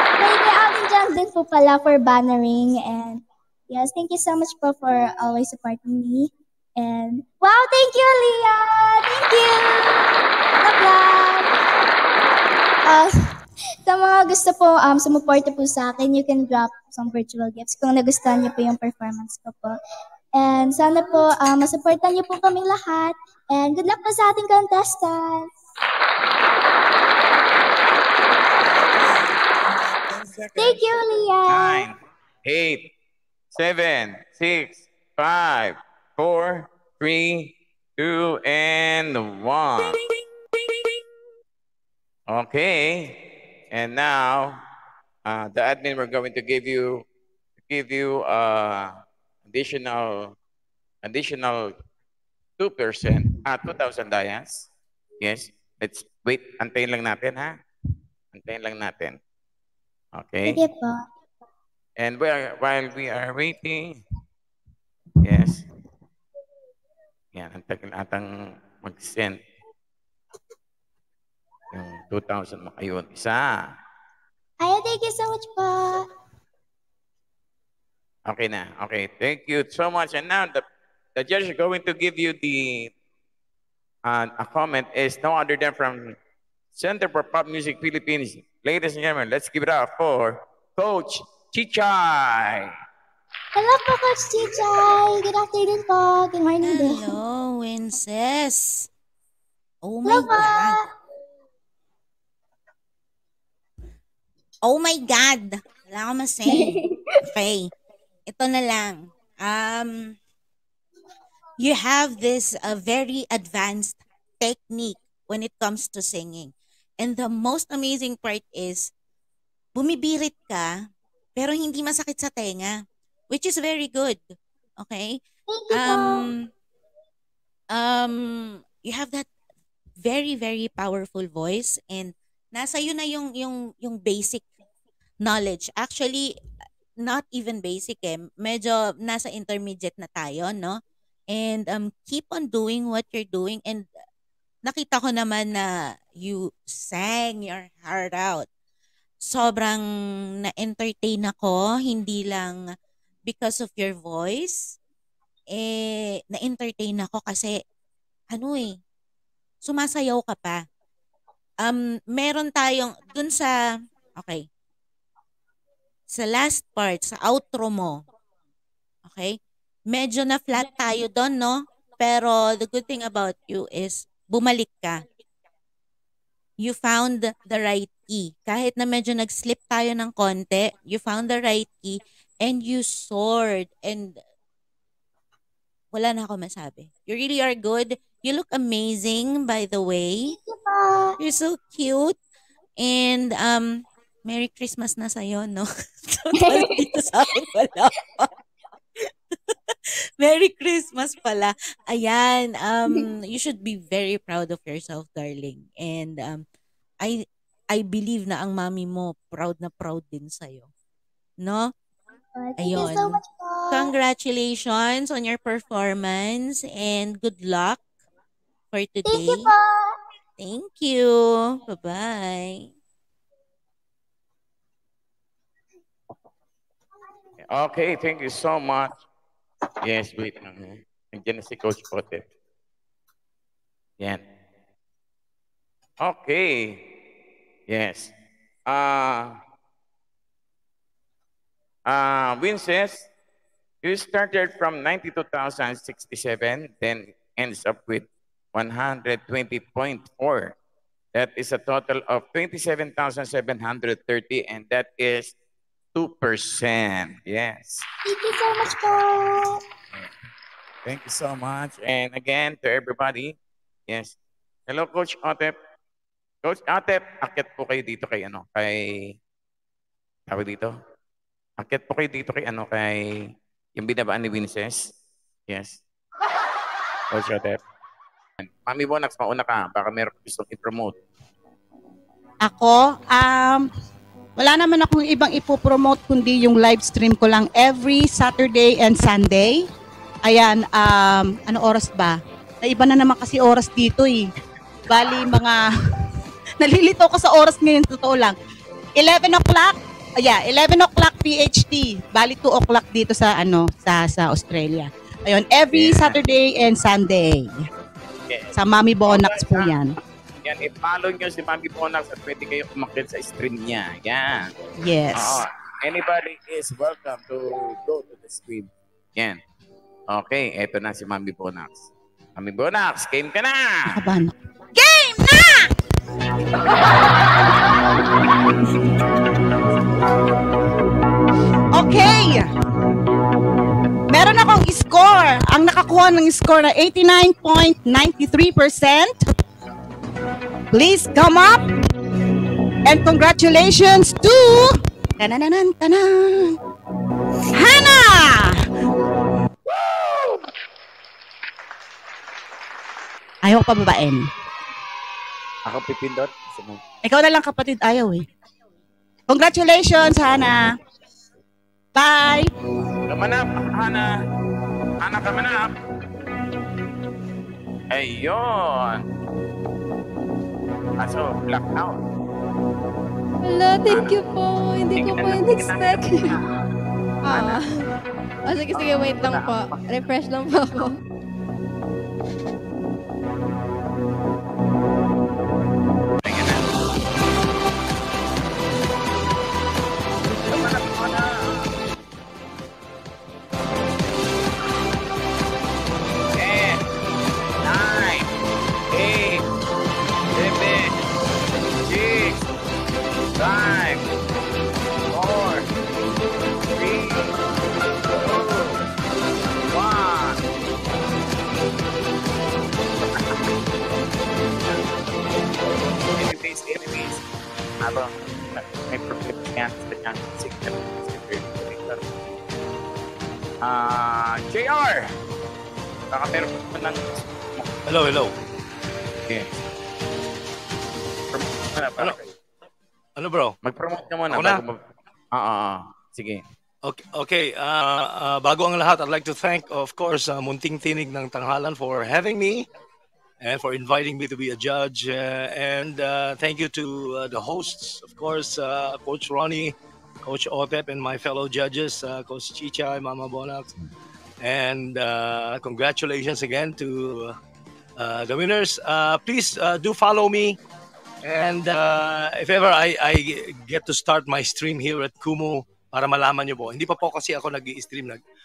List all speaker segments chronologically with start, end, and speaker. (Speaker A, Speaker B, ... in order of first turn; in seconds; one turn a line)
Speaker A: 0.2-11.5
Speaker A: 12.9-13.1
Speaker A: 13.8-19.8
Speaker A: 20.4-25.5
Speaker B: 28.6-30.8
Speaker A: 30.6-31.9
Speaker B: 31.5-32.9
Speaker B: 33.5-40.0
Speaker B: 42.3-43.2
Speaker B: 43.7-44.6
Speaker B: 45.2-47.1
Speaker B: 47.7-49.0
Speaker B: 49.5-50.4
Speaker B: 51.0-51.7
Speaker B: 52.6-54.7
Speaker B: 55.2-57.5
Speaker B: 58.3-59.2
Speaker B: 60.1-60.6
Speaker A: 60.5-61.0
Speaker B: 62.0-64.0
Speaker B: 65.2-65.6
Speaker B: 67.3-69.4
Speaker B: 71.7-73.7
Speaker A: 74.6-76.1
Speaker B: 78.3-80.6
Speaker B: 81.2-82.9
Speaker B: 84.1-86.2
Speaker B: 86.8-92.7
Speaker A: 93.5-97.1
Speaker C: 96.6-98.9
Speaker C: 99.8-100.8
Speaker A: 100.1-100.9
Speaker C: 104.6-106.8
Speaker A: 106.5-106.8
Speaker C: 107.3-107.7
Speaker C: 108.3-110.2
Speaker C: 111.6-118.9
Speaker C: 119.8-120.7
Speaker C: 121.4-122.7
Speaker C: 123.3-124.2
Speaker C: 124.8-125.2
Speaker A: 125.5-126.2
Speaker C: 125.7-126.5
Speaker C: 127.7-129.3
Speaker C: 130.0-134.4
Speaker C: 135.2-136.3
Speaker C: 137.0-140.8
Speaker C: 141.3-143.9
Speaker C: 144.6-148.4
Speaker C: 149.3-149.8
Speaker C: 150.4-152.6
Speaker C: 153.3-154.8
Speaker C: 155.5-157.6
Speaker C: 158.3-158.7
Speaker C: 159.6-160.6
Speaker C: 161.6-163.6
Speaker C: 164.2-164.4
Speaker C: 166.1-168.0
Speaker C: 169.1-169.4
Speaker C: 169.9-175.0
Speaker C: 176.6-184.2
Speaker C: 185.9-190.4
Speaker A: 190.3-191.2
Speaker C: 191.2-192.1
Speaker C: 192.8-198.3
Speaker A: 196.4-197.1
Speaker C: 200.2-206.4
Speaker C: 207.0-210.7
Speaker C: 211.4-211.7
Speaker A: 212.4-213.9
Speaker C: 212.6-213.2
Speaker C: 213.7-217.8
Speaker C: 218.7-219.5
Speaker A: 219.1-219.9
Speaker C: 220.4-222.6
Speaker B: 227.5-229.0
Speaker B: 229.8-232.3
Speaker B: 236.0-236.8
Speaker B: 237.7-238.1
Speaker B: 238.7-239.4
Speaker B: 241.9-243.1
Speaker B: 243.8-250.6
Speaker B: 251.1-255.3
Speaker B: 255.9-257.9
Speaker A: 258.1-259.6
Speaker B: 260.9-263.4
Speaker B: 263.9-264.1
Speaker B: 264.7-265.6
Speaker B: 266.4-269.1
Speaker B: 270.3-270.7
Speaker B: 271.6-274.9
Speaker B: 275.5-275.8
Speaker B: 277.1-277.6
Speaker B: 278.4-280.9
Speaker D: 282.4-283.6
Speaker D: 284.4-289.6
Speaker D: 290.2-294.2
Speaker D: 294.9-295.6
Speaker D: 296.6-298.4
Speaker D: 298.9-307.5
Speaker B: 305.7-306.2
Speaker B: 308.3-309.7
Speaker D: 308.6-309.9
Speaker B: 310.4-314.5
Speaker D: 314.8-315.4
Speaker B: 315.1-319.4
Speaker B: 320.1-323.9
Speaker D: 323.9-325.7
Speaker D: 331.8-332.5
Speaker D: 334.1-339.1
Speaker D: 340.7-341.6
Speaker D: 342.9-346.5
Speaker D: 347.6-348.6
Speaker B: 349.8-350.4
Speaker D: 353.4-354.2
Speaker B: 355.6-356.8
Speaker D: 357.0-358.2
Speaker D: 359.3-360.6
Speaker D: 361.9-362.5
Speaker B: 363.1-364.1
Speaker B: 365.0-365.7
Speaker B: 367.9-369.0
Speaker B: 371.0-372.0
Speaker E: 373.4-376.4
Speaker B: 373.9-374.1
Speaker B: 374.9-376.4
Speaker E: 377.2-377.9
Speaker B: 377.3-377.6
Speaker E: 378.5-381.0
Speaker B: 378.7-379.6
Speaker B: 386.2-386.6
Speaker B: 390.5-391.7
Speaker B: 396.4-396.8
Speaker B: 397.6-398.3
Speaker B: 398.9-399.4
Speaker B: 400.4-401.0
Speaker B: 401.8-402.4
Speaker B: 403.4-404.1
Speaker B: 405.1-405.6
Speaker B: 406.8-407.3
Speaker B: 408.1-408.8
Speaker B: 409.7-410.4
Speaker B: 413.1-413.5
Speaker B: 414.6-417.2
Speaker B: 417.8-422.0
Speaker B: 423.6-425.1
Speaker B: 426.1-427.7
Speaker F: 427.9-428.3
Speaker B: 431.3-432.3
Speaker F: 433.2-433.5
Speaker B: 433.6-434.8
Speaker F: 434.3-434.6
Speaker B: 435.3-436.4
Speaker F: 436.8-442.6
Speaker F: 443.4-453.8
Speaker F: 454.4-457.4
Speaker F: 458.0-460.6
Speaker F: 461.2-468.2